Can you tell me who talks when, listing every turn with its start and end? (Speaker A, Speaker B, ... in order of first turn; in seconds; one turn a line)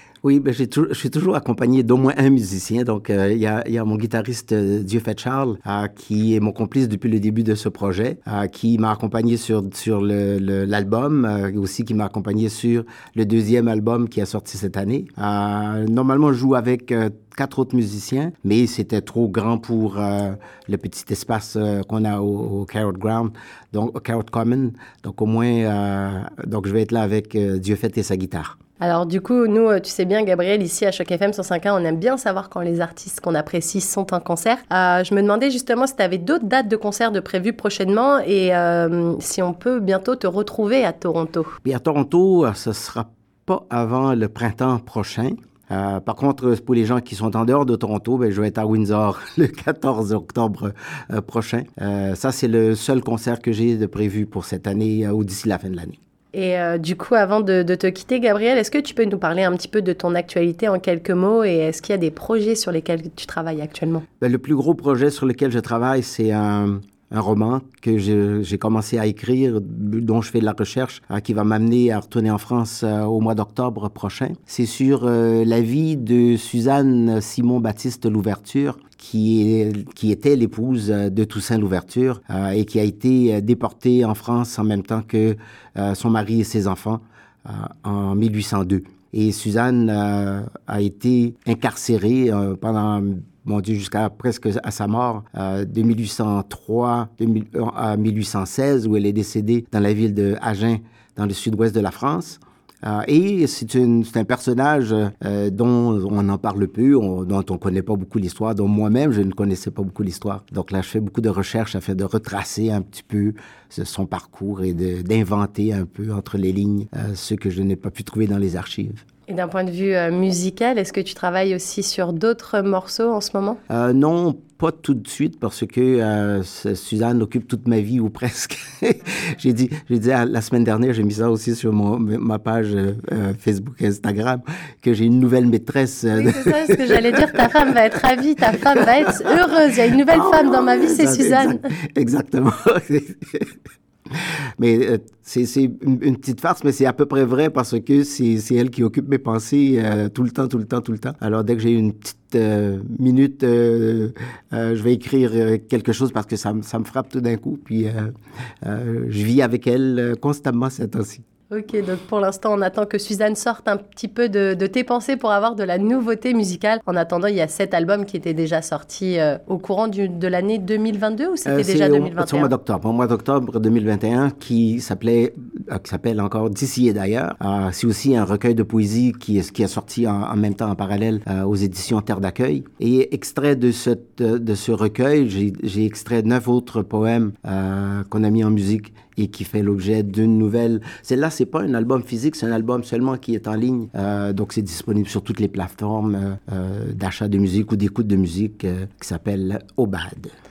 Speaker A: 0.2-28.6
Speaker B: 28.8-41.5
Speaker A: 41.6-56.0
Speaker B: 56.3-64.0
Speaker A: 64.2-119.0
Speaker B: 119.3-123.6
Speaker A: 123.7-137.8
Speaker B: 136.2-141.6
Speaker A: 138.5-139.1
Speaker A: 140.1-143.5
Speaker A: 144.1-158.1
Speaker A: 158.6-161.2
Speaker B: 161.5-172.5
Speaker A: 171.5-200.3